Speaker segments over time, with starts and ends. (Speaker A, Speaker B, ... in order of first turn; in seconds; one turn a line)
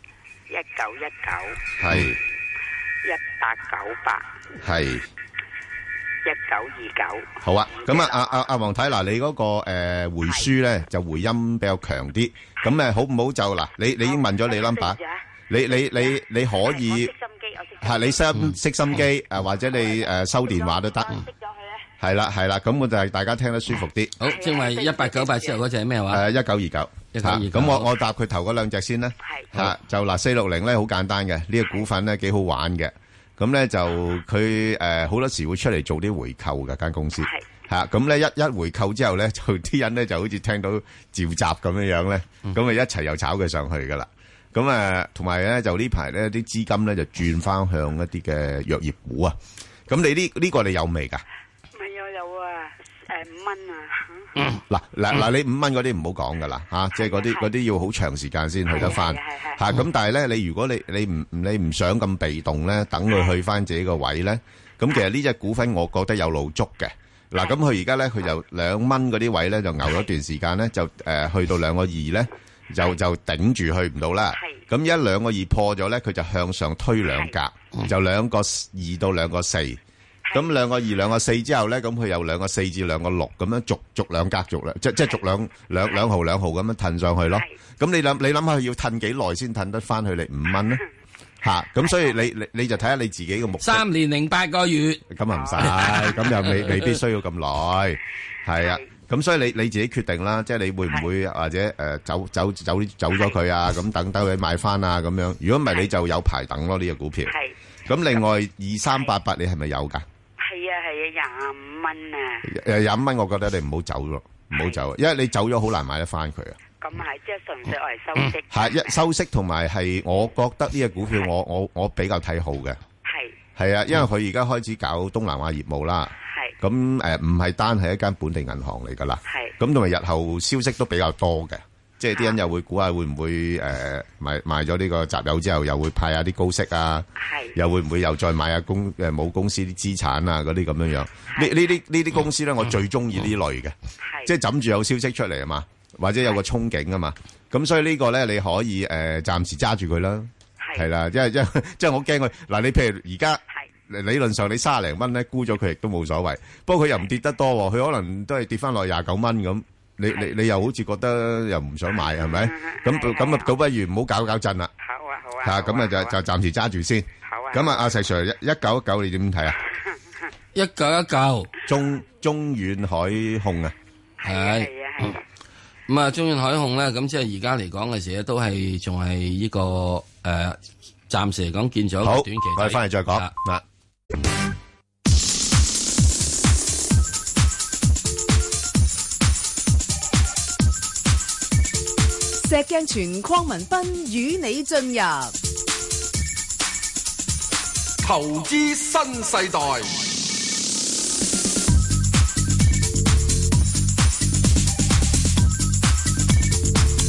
Speaker A: 0.5-1.7
Speaker B: 1.8-2.2
Speaker A: 3.0-4.3
Speaker B: 4.6-5.1
Speaker A: 6.2-8.5
Speaker B: 7.4-15.0
Speaker A: 14.0-18.3
Speaker B: 15.5-17.1
Speaker B: 17.8-21.1
Speaker A: 19.7-21.9
Speaker B: 22.0-24.1
Speaker C: 24.2-26.2
Speaker A: 24.2-25.6
Speaker B: 26.1-49.4
Speaker C: 27.1-27.9
Speaker A: 29.2-29.7
Speaker A: 37.2-37.5
Speaker B: 49.9-51.2
Speaker A: 51.8-54.3
Speaker B: 54.7-79.8
Speaker A: 57.0-57.5
Speaker A: 58.7-59.6
Speaker A: 74.4-74.6
Speaker A: 80.3-80.5
Speaker B: 80.3-90.8
Speaker B: 91.4-93.8
Speaker A: 91.8-92.1
Speaker C: 93.6-95.0
Speaker B: 95.1-107.3
Speaker A: 95.3-96.3
Speaker C: 95.6-97.0
Speaker A: 98.6-98.9
Speaker A: 107.3-108.0
Speaker B: 107.9-110.0
Speaker A: 110.4-112.4
Speaker B: 112.4-116.6
Speaker A: 114.6-114.8
Speaker A: 116.8-119.0
Speaker B: 118.5-122.8
Speaker A: 123.1-123.4
Speaker B: 123.6-164.7
Speaker A: 126.3-126.5
Speaker A: 137.2-137.6
Speaker A: 144.0-144.3
Speaker A: 150.6-150.9
Speaker A: 162.2-163.6
Speaker A: 164.8-166.1
Speaker B: 165.4-169.6
Speaker A: 167.2-167.9
Speaker C: 170.5-171.5
Speaker B: 171.7-173.8
Speaker A: 174.2-175.2
Speaker C: 174.2-175.1
Speaker C: 175.9-183.3
Speaker B: 182.0-183.6
Speaker D: 192.4-195.3
Speaker E: 198.0-200.1